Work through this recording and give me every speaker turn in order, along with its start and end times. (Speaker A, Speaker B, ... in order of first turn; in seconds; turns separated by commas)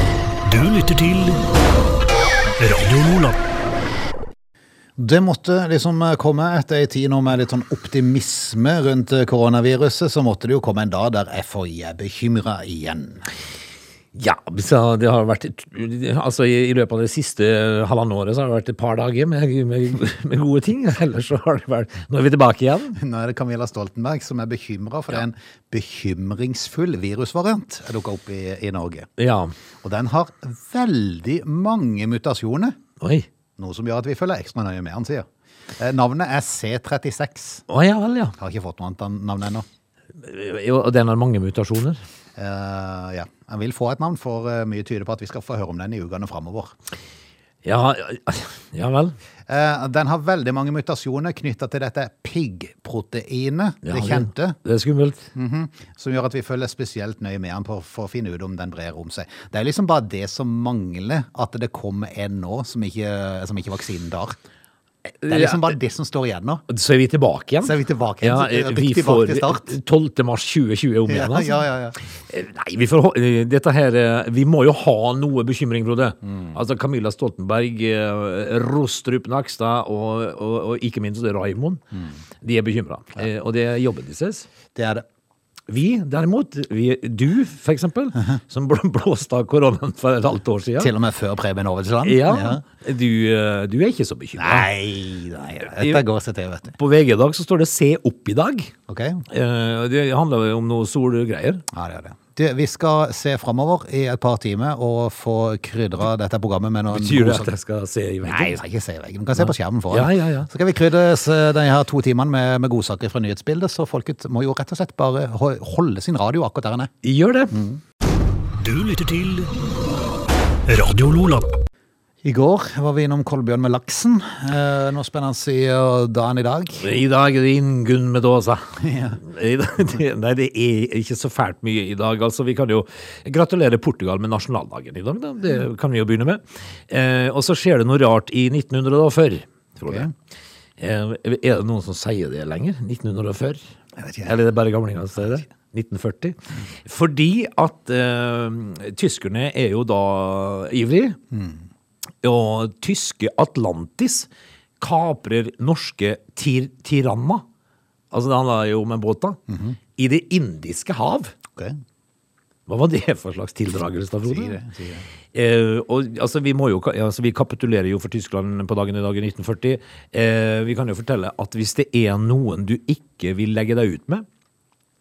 Speaker A: 0.4-1.4, Speaker A: 2.6-3.4, Speaker B: 5.0-13.3, Speaker C: 14.1-23.0, Speaker B: 22.9-29.1, Speaker C: 29.2-29.5, Speaker B: 29.8-32.8, Speaker C: 33.0-33.3, Speaker B: 33.6-35.3, Speaker B: 35.8-37.6, Speaker C: 37.7-38.4, Speaker B: 38.4-39.6, Speaker C: 40.1-42.0, Speaker B: 42.4-46.7, Speaker C: 47.6-49.2, Speaker B: 49.5-54.6, Speaker C: 53.8-55.3, Speaker B: 55.3-64.4, Speaker C: 65.2-65.8, Speaker B: 65.3-66.6, Speaker C: 66.7-71.6, Speaker B: 67.6-69.7, Speaker B: 71.1-72.0, Speaker C: 72.2-81.8, Speaker C: 82.4-84.5, Speaker B: 84.7-85.0, Speaker C: 85.7-90.9, Speaker B: 90.8-92.6, Speaker C: 92.0-94.7, Speaker B: 94.4-96.8, Speaker C: 95.7-96.0, Speaker C: 96.7-98.7, Speaker B: 98.9-99.2, Speaker C: 99.3-101.7, Speaker B: 101.7-107.5, Speaker C: 106.9-108.6, Speaker B: 108.2-116.9, Speaker C: 109.4-110.5, Speaker C: 117.0-117.6, Speaker B: 117.5-117.8, Speaker A: 118.6-119.5, Speaker A: 120.7-121.5, Speaker B: 122.2-126.9, Speaker C: 126.8-140.1, Speaker B: 128.8-129.2, Speaker C: 140.8-143.6, Speaker B: 144.0-144.3, Speaker C: 144.2-151.2, Speaker B: 151.3-151.6, Speaker C: 152.2-154.3, Speaker C: 154.8-157.4, Speaker C: 158.1-159.4, Speaker B: 159.5-159.8, Speaker C: 160.0-161.3, Speaker C: 162.7-164.6, Speaker B: 164.2-165.0, Speaker C: 165.3-174.2